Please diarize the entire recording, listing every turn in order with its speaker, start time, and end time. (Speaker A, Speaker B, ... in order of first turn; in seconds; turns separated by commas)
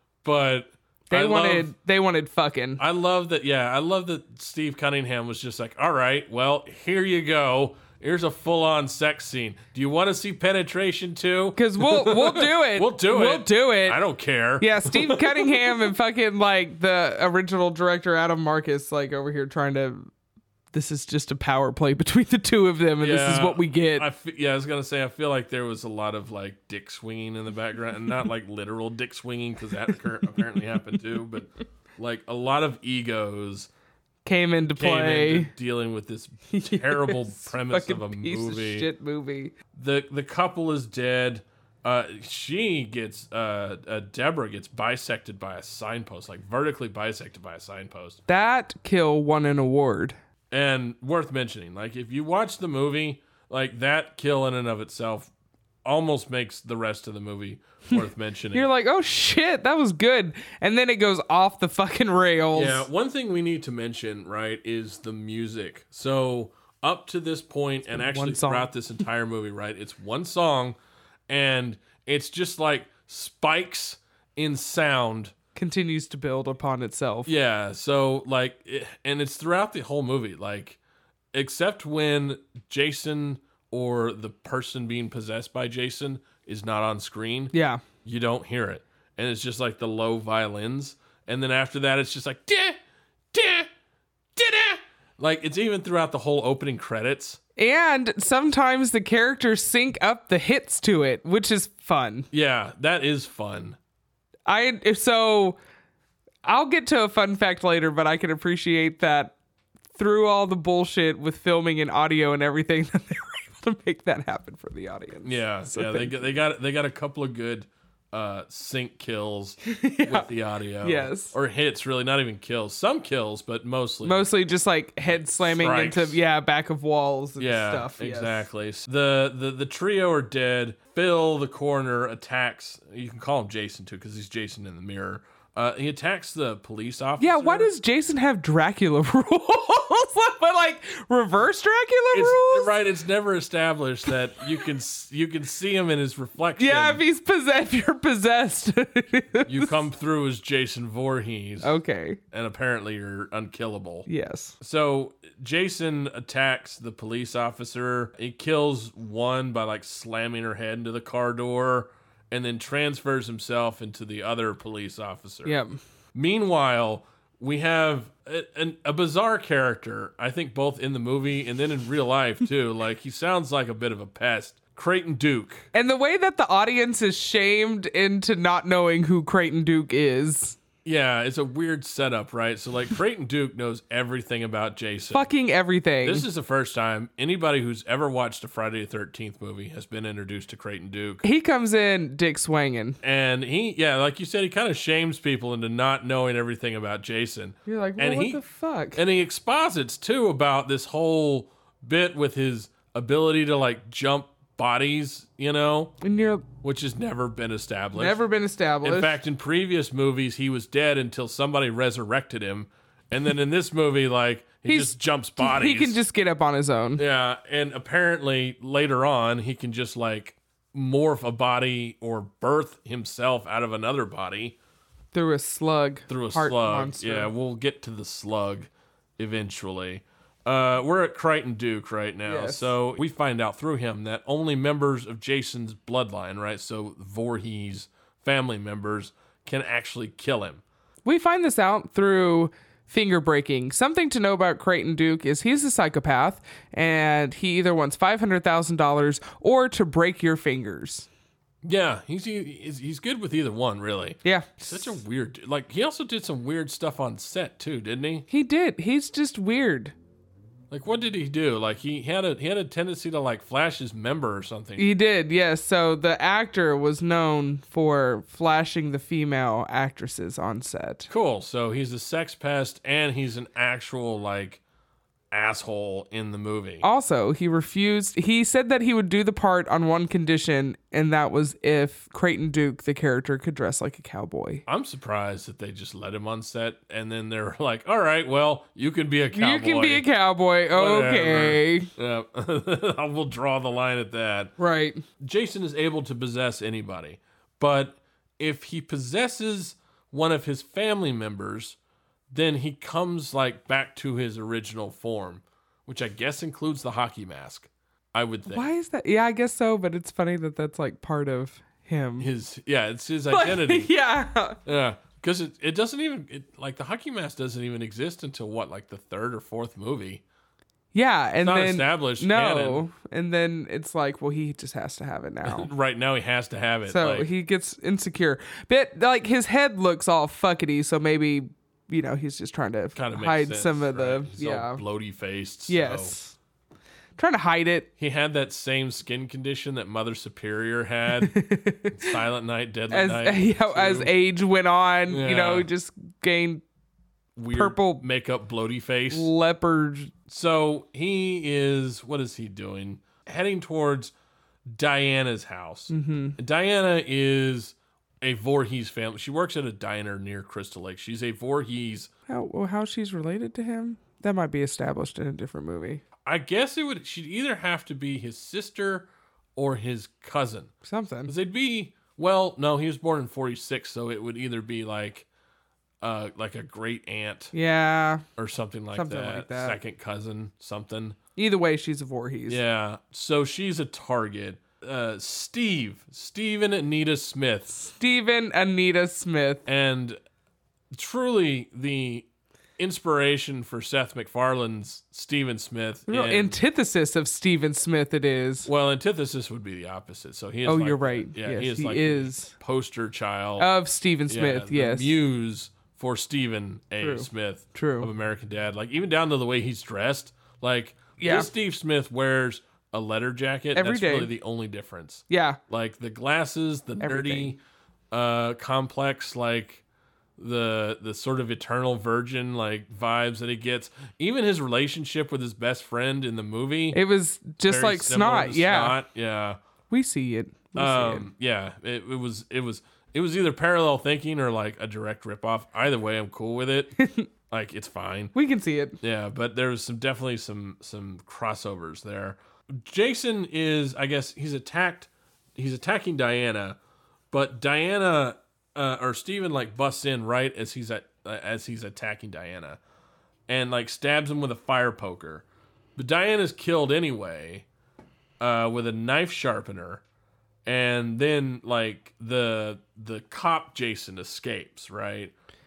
Speaker A: 0.2-1.7, Speaker B: 1.1-2.8, Speaker A: 2.8-15.9, Speaker B: 11.6-14.0, Speaker B: 14.6-20.1, Speaker B: 20.7-24.1, Speaker A: 23.0-33.7, Speaker B: 34.2-35.5, Speaker A: 34.8-38.9, Speaker B: 36.5-39.5, Speaker A: 39.7-48.2, Speaker B: 48.3-50.1, Speaker A: 50.5-55.3, Speaker A: 55.8-58.7, Speaker B: 57.9-62.9, Speaker A: 62.5-70.8, Speaker B: 67.9-68.7, Speaker A: 71.3-75.3, Speaker B: 75.5-77.3, Speaker A: 77.2-80.8, Speaker A: 81.3-87.5, Speaker B: 87.5-87.8, Speaker A: 88.0-92.8, Speaker A: 93.3-93.7, Speaker A: 94.3-97.4, Speaker B: 97.6-102.3, Speaker A: 102.3-103.8, Speaker B: 104.5-105.6, Speaker B: 106.4-109.3, Speaker B: 110.0-116.3, Speaker A: 115.2-124.3, Speaker B: 119.6-120.3, Speaker B: 120.8-121.3, Speaker B: 124.0-128.4, Speaker A: 125.1-126.2, Speaker A: 127.4-137.7, Speaker B: 137.2-142.8, Speaker A: 142.1-147.0, Speaker B: 146.6-149.8, Speaker A: 149.4-151.8, Speaker B: 151.6-152.2, Speaker A: 152.3-154.1, Speaker B: 154.1-154.6, Speaker A: 154.6-165.6, Speaker B: 165.4-165.8, Speaker A: 166.1-175.7, Speaker B: 175.7-180.6, Speaker A: 180.8-185.3, Speaker B: 185.1-186.3, Speaker A: 186.0-191.2, Speaker B: 191.2-193.0, Speaker A: 193.0-198.4, Speaker B: 197.7-199.0, Speaker A: 198.9-205.9, Speaker B: 206.0-206.5, Speaker A: 206.6-208.2, Speaker B: 207.9-209.2, Speaker A: 208.8-216.0, Speaker B: 214.6-217.0, Speaker A: 217.0-224.6, Speaker B: 225.1-227.3, Speaker A: 226.1-240.6, Speaker B: 232.3-232.7, Speaker B: 241.0-251.1, Speaker A: 251.6-258.3, Speaker B: 254.2-255.0, Speaker B: 258.3-259.9, Speaker A: 260.7-264.9, Speaker B: 264.8-271.1, Speaker A: 271.1-274.6, Speaker A: 275.3-276.8, Speaker B: 276.8-284.6, Speaker A: 284.7-290.1, Speaker B: 289.3-291.9, Speaker A: 290.7-294.5, Speaker B: 294.6-295.0, Speaker A: 295.2-301.8, Speaker A: 302.3-308.7, Speaker B: 308.5-312.3, Speaker A: 312.2-313.9, Speaker B: 313.3-314.6, Speaker A: 314.6-320.2, Speaker B: 320.9-325.7, Speaker A: 321.4-322.8, Speaker A: 325.4-327.3, Speaker B: 326.9-334.8, Speaker A: 332.9-336.1, Speaker B: 335.7-336.4, Speaker B: 337.2-337.9, Speaker A: 338.0-341.4, Speaker B: 341.2-342.1, Speaker A: 341.9-344.1, Speaker B: 342.9-346.6, Speaker A: 345.1-345.7, Speaker A: 347.4-349.3, Speaker B: 347.5-348.0, Speaker B: 349.1-350.1, Speaker A: 350.3-354.1, Speaker A: 354.7-362.1, Speaker B: 355.9-356.4, Speaker B: 362.3-366.0, Speaker A: 366.2-370.7, Speaker B: 370.8-371.3, Speaker A: 371.3-375.2, Speaker A: 376.0-377.5, Speaker B: 377.5-378.2, Speaker A: 378.4-381.2, Speaker B: 378.9-379.8, Speaker B: 381.4-382.6, Speaker A: 382.5-387.8, Speaker B: 387.8-389.6, Speaker A: 389.6-390.2, Speaker A: 390.9-392.3, Speaker A: 392.8-396.6, Speaker B: 396.1-398.7, Speaker A: 398.6-403.7, Speaker B: 400.6-402.5, Speaker B: 403.6-405.2, Speaker A: 404.3-417.6, Speaker B: 407.0-408.1, Speaker B: 411.2-411.5, Speaker B: 413.7-414.3, Speaker B: 415.3-415.6, Speaker B: 417.0-417.5, Speaker A: 418.1-419.8, Speaker A: 420.4-427.0, Speaker B: 426.9-429.0, Speaker A: 427.6-429.6, Speaker B: 429.9-431.3, Speaker A: 430.8-436.9, Speaker B: 437.0-437.3, Speaker A: 437.5-438.3, Speaker B: 438.3-439.0, Speaker A: 439.0-446.8, Speaker A: 447.3-452.8, Speaker A: 453.5-455.4, Speaker A: 455.9-457.6, Speaker A: 458.4-460.0, Speaker A: 460.6-465.3